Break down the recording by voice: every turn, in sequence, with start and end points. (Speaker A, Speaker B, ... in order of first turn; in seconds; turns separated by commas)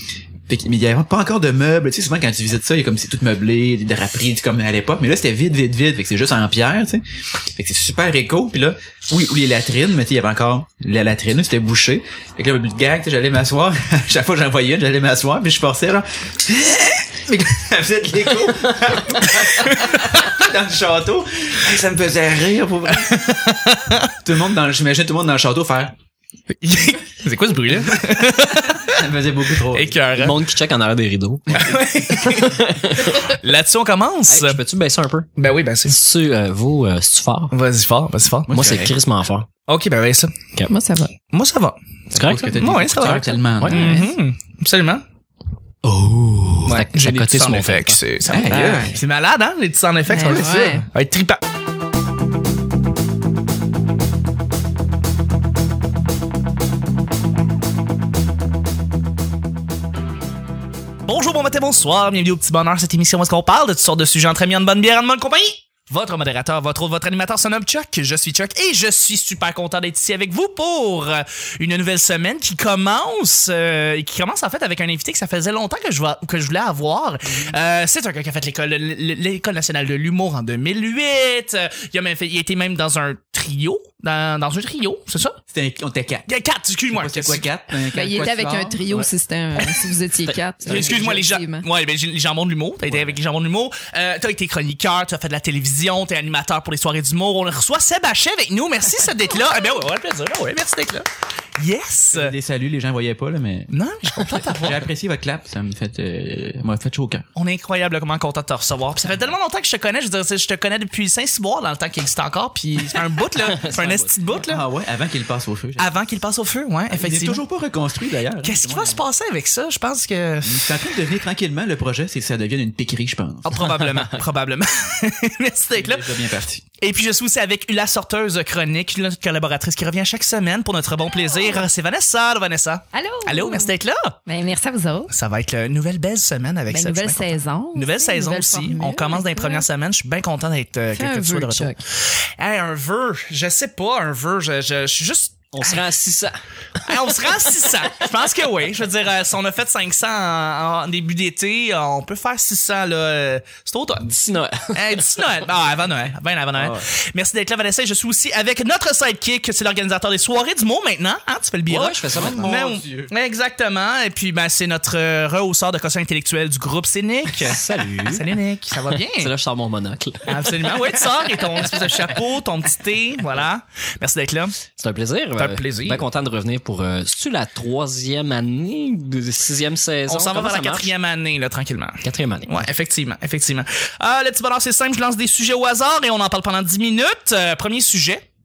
Speaker A: 0.5-7.0, Speaker A: 7.5-23.2, Speaker B: 19.6-19.9, Speaker B: 23.1-24.1, Speaker A: 24.2-25.9, Speaker B: 26.6-29.1, Speaker A: 28.8-30.0, Speaker B: 29.7-30.4, Speaker C: 30.1-31.6, Speaker B: 31.5-34.6, Speaker C: 32.3-33.2, Speaker C: 34.3-35.3, Speaker B: 35.4-36.0, Speaker C: 35.9-37.5, Speaker B: 37.5-38.5, Speaker A: 38.5-38.9, Speaker C: 38.5-39.5, Speaker B: 39.7-40.4, Speaker D: 40.7-41.1, Speaker B: 41.3-41.8, Speaker A: 42.1-43.9, Speaker C: 42.1-42.5, Speaker B: 42.4-45.0, Speaker C: 43.6-44.0, Speaker D: 43.7-44.1, Speaker C: 45.9-48.0, Speaker B: 46.6-51.4, Speaker A: 48.3-49.0, Speaker D: 50.1-50.9, Speaker B: 61.0-85.4, Speaker A: 77.3-77.5, Speaker A: 85.5-86.3, Speaker B: 86.3-87.5, Speaker A: 86.9-88.8, Speaker D: 87.9-91.7, Speaker B: 90.7-102.3, Speaker A: 90.7-91.2, Speaker A: 92.9-93.2, Speaker A: 102.1-103.7, Speaker B: 103.7-104.9, Speaker A: 104.5-107.3, Speaker B: 107.4-114.6, Speaker C: 113.4-114.2, Speaker A: 114.4-115.9, Speaker B: 115.8-117.4, Speaker A: 116.9-119.0, Speaker B: 118.4-120.9, Speaker A: 120.4-123.6, Speaker B: 123.4-126.2, Speaker C: 123.8-124.2, Speaker A: 125.7-126.6, Speaker B: 126.8-134.2, Speaker D: 131.1-131.7, Speaker D: 132.9-133.7, Speaker D: 134.3-135.1, Speaker B: 135.1-145.8, Speaker D: 136.7-139.7, Speaker D: 140.9-141.8, Speaker C: 145.5-146.4, Speaker B: 146.8-154.1, Speaker C: 154.0-155.1, Speaker B: 154.7-169.3, Speaker C: 161.7-162.5, Speaker A: 162.1-163.1, Speaker C: 167.4-168.3, Speaker C: 169.2-170.6, Speaker B: 170.3-174.6, Speaker C: 174.8-180.9, Speaker B: 175.4-176.0, Speaker B: 180.1-188.2, Speaker C: 182.0-182.7